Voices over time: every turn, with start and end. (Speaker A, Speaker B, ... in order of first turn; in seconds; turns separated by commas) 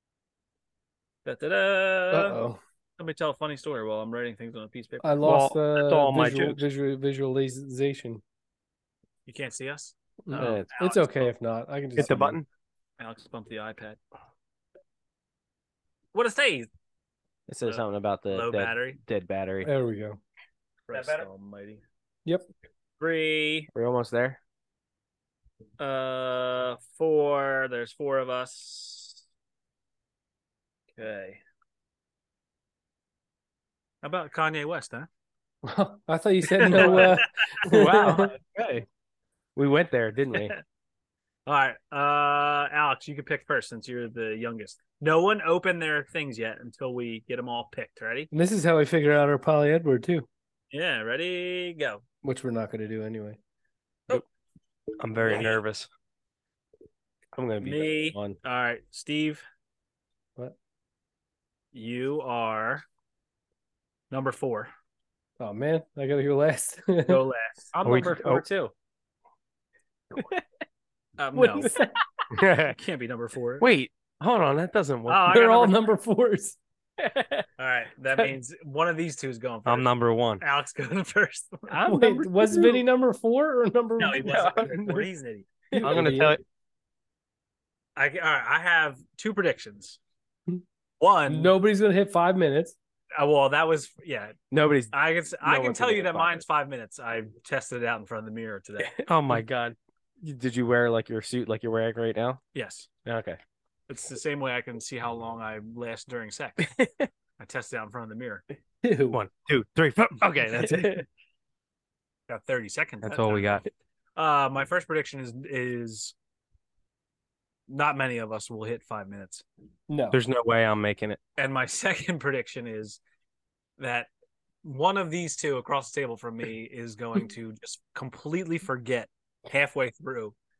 Speaker A: 1.2-2.4, Speaker B: 2.1-2.6, Speaker A: 3.0-5.1, Speaker B: 5.0-8.2, Speaker C: 5.2-6.6, Speaker A: 9.2-11.3, Speaker B: 10.2-12.4, Speaker D: 10.4-10.7, Speaker C: 11.9-12.5, Speaker A: 13.0-14.0, Speaker A: 16.1-16.7, Speaker D: 17.5-19.7, Speaker A: 17.6-19.0, Speaker B: 19.6-20.2, Speaker A: 20.9-21.8, Speaker D: 20.9-21.2, Speaker A: 23.0-23.7, Speaker D: 23.7-24.4, Speaker A: 25.8-29.2, Speaker A: 31.0-31.4, Speaker A: 34.0-35.1, Speaker B: 35.6-38.3, Speaker A: 36.5-37.6, Speaker D: 36.7-38.8, Speaker D: 39.5-40.5, Speaker A: 41.5-48.3, Speaker B: 48.3-50.3, Speaker A: 50.7-52.0, Speaker B: 52.2-53.4, Speaker C: 55.0-55.9, Speaker A: 55.2-55.6, Speaker D: 57.3-58.4, Speaker A: 57.6-59.4, Speaker A: 61.7-62.8, Speaker A: 64.1-64.7, Speaker B: 65.4-67.2, Speaker A: 67.1-67.7, Speaker D: 67.7-68.7, Speaker C: 67.8-68.4, Speaker D: 70.1-70.4, Speaker A: 71.2-71.7, Speaker B: 71.4-71.9, Speaker D: 71.5-71.8, Speaker C: 72.3-72.8, Speaker A: 72.7-73.7, Speaker C: 73.6-75.3, Speaker A: 75.0-75.8, Speaker B: 75.3-76.6, Speaker D: 77.0-77.5, Speaker A: 77.6-79.9, Speaker C: 79.7-80.4, Speaker A: 80.4-82.6, Speaker B: 81.7-84.8, Speaker A: 84.0-85.5, Speaker D: 84.2-85.0, Speaker D: 85.7-86.2, Speaker B: 85.7-86.4, Speaker C: 85.8-86.4, Speaker A: 88.0-90.0, Speaker A: 91.0-91.5, Speaker B: 91.3-92.7, Speaker A: 93.2-94.3, Speaker D: 94.5-96.4, Speaker A: 94.9-98.9, Speaker D: 98.8-99.1, Speaker C: 99.1-99.8, Speaker D: 100.2-102.4, Speaker A: 102.5-102.9, Speaker D: 103.0-103.4, Speaker A: 103.9-106.7, Speaker D: 106.6-107.1, Speaker A: 107.4-108.4, Speaker B: 108.8-109.2, Speaker C: 109.1-111.0, Speaker D: 110.6-111.0, Speaker A: 112.3-113.6, Speaker C: 113.0-113.6, Speaker A: 114.2-116.1, Speaker A: 117.7-119.4, Speaker B: 119.9-120.2, Speaker C: 120.1-121.2, Speaker A: 121.4-123.0, Speaker A: 123.8-124.1, Speaker A: 124.6-130.3